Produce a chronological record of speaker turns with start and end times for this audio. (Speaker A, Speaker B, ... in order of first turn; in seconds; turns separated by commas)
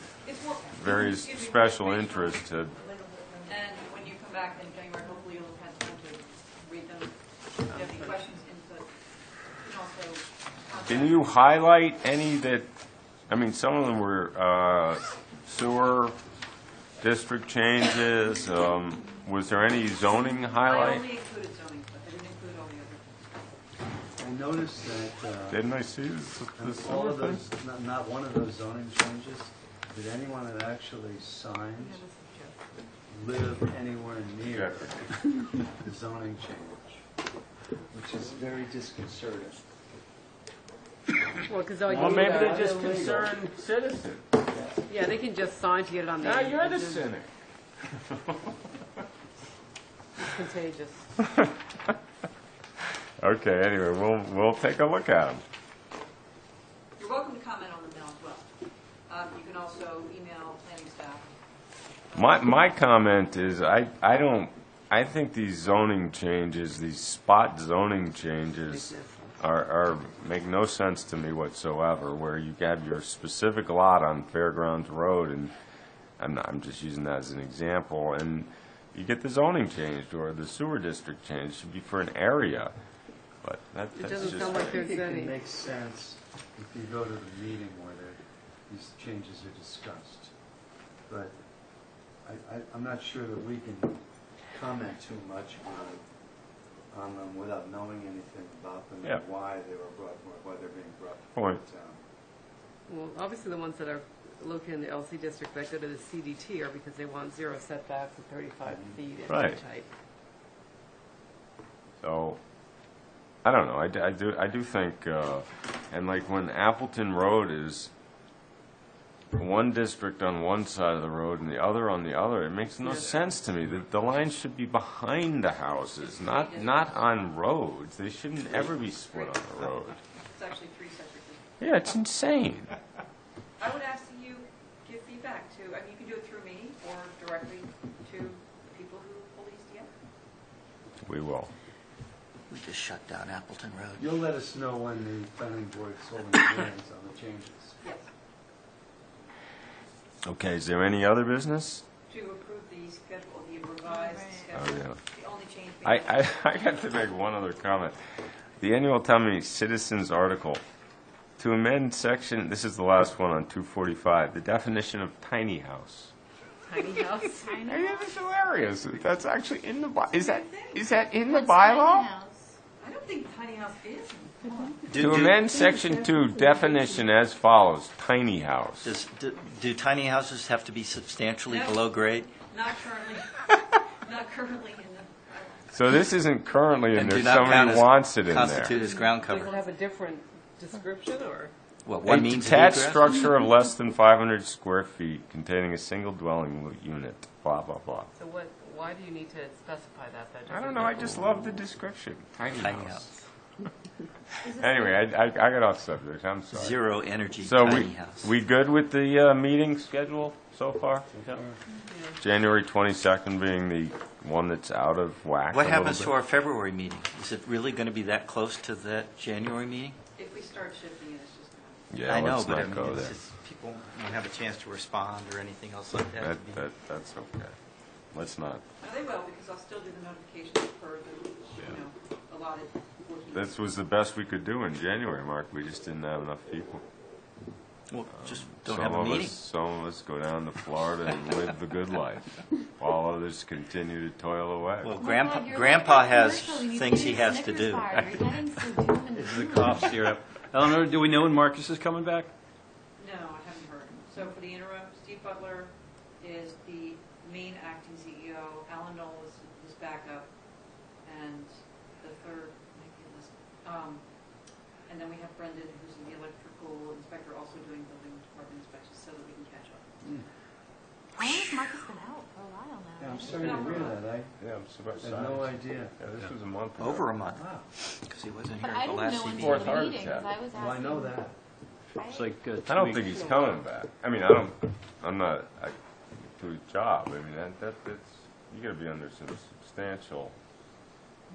Speaker A: 0.2-8.9, Speaker B: 0.7-2.8, Speaker C: 7.7-8.1, Speaker A: 9.6-11.3, Speaker B: 10.9-12.7, Speaker B: 13.3-16.2, Speaker B: 17.0-21.0, Speaker A: 20.6-23.4, Speaker D: 24.2-25.6, Speaker B: 25.5-27.4, Speaker D: 26.6-32.0, Speaker C: 31.8-32.6, Speaker D: 33.1-37.0, Speaker B: 34.5-34.9, Speaker D: 37.9-39.6, Speaker C: 41.5-43.0, Speaker D: 41.9-43.3, Speaker B: 41.9-44.4, Speaker C: 44.9-47.1, Speaker B: 46.2-47.3, Speaker B: 47.9-48.3, Speaker C: 50.2-51.1, Speaker B: 53.2-55.4, Speaker A: 57.0-58.5, Speaker A: 59.1-61.3, Speaker A: 62.1-62.4, Speaker B: 62.1-75.5, Speaker C: 68.7-69.2, Speaker B: 76.2-82.7, Speaker B: 83.4-84.7, Speaker C: 83.9-85.3, Speaker D: 84.2-90.3, Speaker D: 91.1-91.3, Speaker D: 92.2-96.0, Speaker D: 96.9-102.0, Speaker B: 101.3-101.6, Speaker C: 102.9-109.9, Speaker D: 108.7-109.0, Speaker B: 109.3-109.6, Speaker B: 112.0-112.4, Speaker B: 113.4-117.9, Speaker B: 119.3-130.0, Speaker C: 122.8-123.3, Speaker A: 126.0-127.1, Speaker A: 129.1-131.5, Speaker B: 131.6-132.7, Speaker A: 133.6-139.9, Speaker B: 141.0-141.5, Speaker E: 142.5-144.1, Speaker D: 144.0-147.8, Speaker A: 147.8-148.1, Speaker B: 150.2-151.8, Speaker A: 152.1-156.3, Speaker F: 153.9-154.4, Speaker B: 154.5-155.0, Speaker B: 155.8-158.0, Speaker B: 158.6-160.6, Speaker B: 161.4-166.1, Speaker C: 166.6-167.6, Speaker F: 167.6-167.9, Speaker B: 167.7-172.1, Speaker A: 170.1-170.8, Speaker F: 171.2-172.6, Speaker A: 172.8-174.8, Speaker E: 174.9-175.5, Speaker B: 174.9-178.9, Speaker E: 178.8-182.3, Speaker A: 181.5-185.7, Speaker B: 185.7-188.8, Speaker E: 186.9-189.6, Speaker C: 189.2-191.5, Speaker E: 191.8-193.2, Speaker B: 192.0-198.1, Speaker C: 198.2-201.6, Speaker B: 200.5-203.2, Speaker E: 202.5-203.1, Speaker F: 204.4-205.0, Speaker B: 204.4-211.1, Speaker E: 206.5-208.3, Speaker C: 211.9-212.2, Speaker B: 212.2-216.2, Speaker E: 215.5-220.0, Speaker A: 220.2-221.9, Speaker B: 221.9-223.1, Speaker E: 222.1-226.6, Speaker B: 226.2-227.5, Speaker B: 228.1-228.6, Speaker A: 228.8-233.5, Speaker B: 233.3-236.8, Speaker E: 237.9-239.4, Speaker B: 238.2-245.0, Speaker E: 244.8-248.0, Speaker F: 245.0-249.7, Speaker G: 249.1-252.3, Speaker A: 253.0-260.3, Speaker A: 261.0-264.0, Speaker A: 264.9-269.9, Speaker D: 270.0-270.3, Speaker F: 271.2-273.4, Speaker D: 273.0-274.4, Speaker A: 273.2-274.0, Speaker B: 274.4-277.1, Speaker D: 275.0-276.0, Speaker E: 276.8-279.9, Speaker D: 277.3-277.7, Speaker F: 278.6-281.1, Speaker B: 279.3-280.3, Speaker D: 280.5-281.4, Speaker F: 281.9-282.3, Speaker G: 282.1-283.1, Speaker B: 282.6-290.3